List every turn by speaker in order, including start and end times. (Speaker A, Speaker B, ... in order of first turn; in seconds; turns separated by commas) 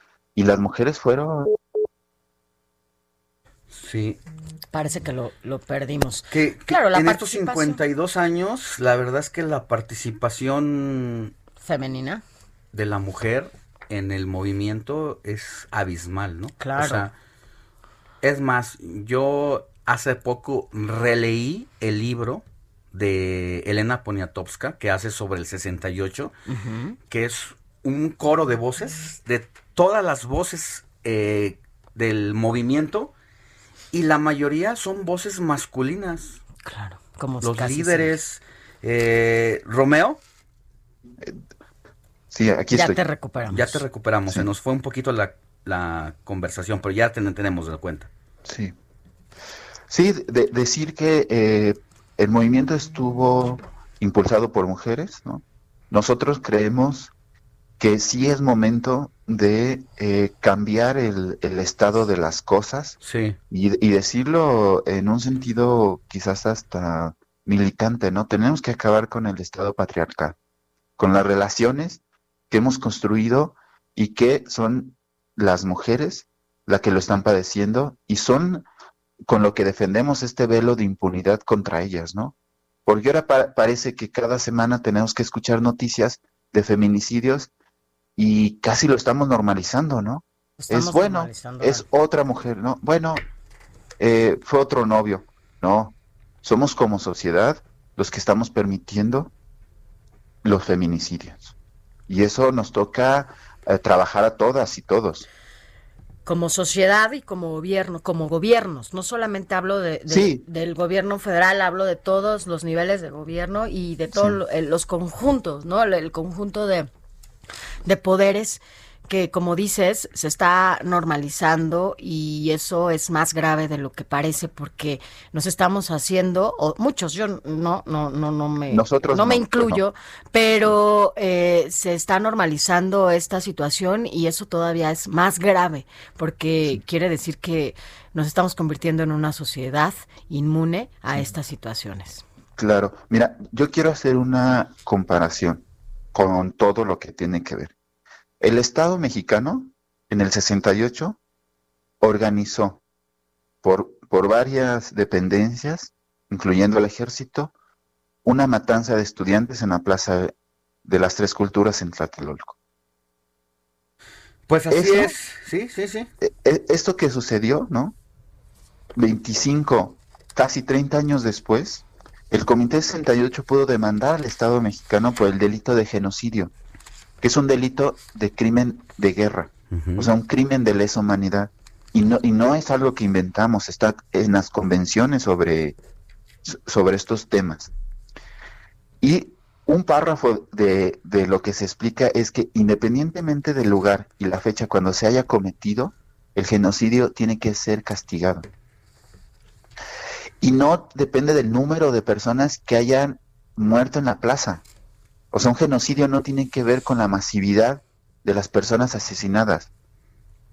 Speaker A: 0.3-1.5, Speaker B: 3.7-4.2, Speaker C: 4.7-7.8, Speaker B: 6.3-11.3, Speaker C: 11.6-12.2, Speaker B: 12.7-17.1, Speaker C: 16.6-17.1, Speaker B: 18.2-26.3, Speaker C: 26.5-27.0, Speaker B: 27.1-33.1, Speaker B: 33.9-36.4, Speaker C: 36.6-38.1, Speaker B: 37.4-40.2, Speaker A: 42.3-43.0, Speaker C: 42.7-43.8, Speaker B: 43.5-48.1, Speaker A: 48.4-48.7, Speaker A: 49.9-57.1, Speaker A: 57.8-63.0, Speaker B: 63.0-63.4, Speaker A: 63.5-70.4, Speaker A: 71.0-78.7, Speaker A: 79.3-82.3, Speaker A: 82.8-87.5, Speaker A: 88.2-93.2, Speaker C: 90.6-91.8, Speaker A: 94.0-99.3, Speaker A: 100.4-101.5, Speaker A: 102.1-105.3, Speaker C: 106.2-116.9, Speaker A: 110.1-110.4, Speaker A: 114.1-114.4, Speaker C: 117.8-142.2, Speaker A: 128.7-129.8, Speaker A: 142.6-147.7, Speaker A: 148.4-151.2, Speaker A: 152.0-152.8, Speaker A: 153.6-157.5, Speaker A: 158.2-160.3, Speaker A: 160.8-162.6, Speaker B: 164.5-166.1, Speaker A: 164.7-165.1, Speaker A: 166.2-167.9, Speaker A: 168.9-176.5, Speaker A: 177.2-185.8, Speaker B: 179.7-180.1, Speaker A: 186.4-187.7, Speaker A: 189.0-198.5, Speaker A: 200.4-204.6, Speaker A: 205.3-209.7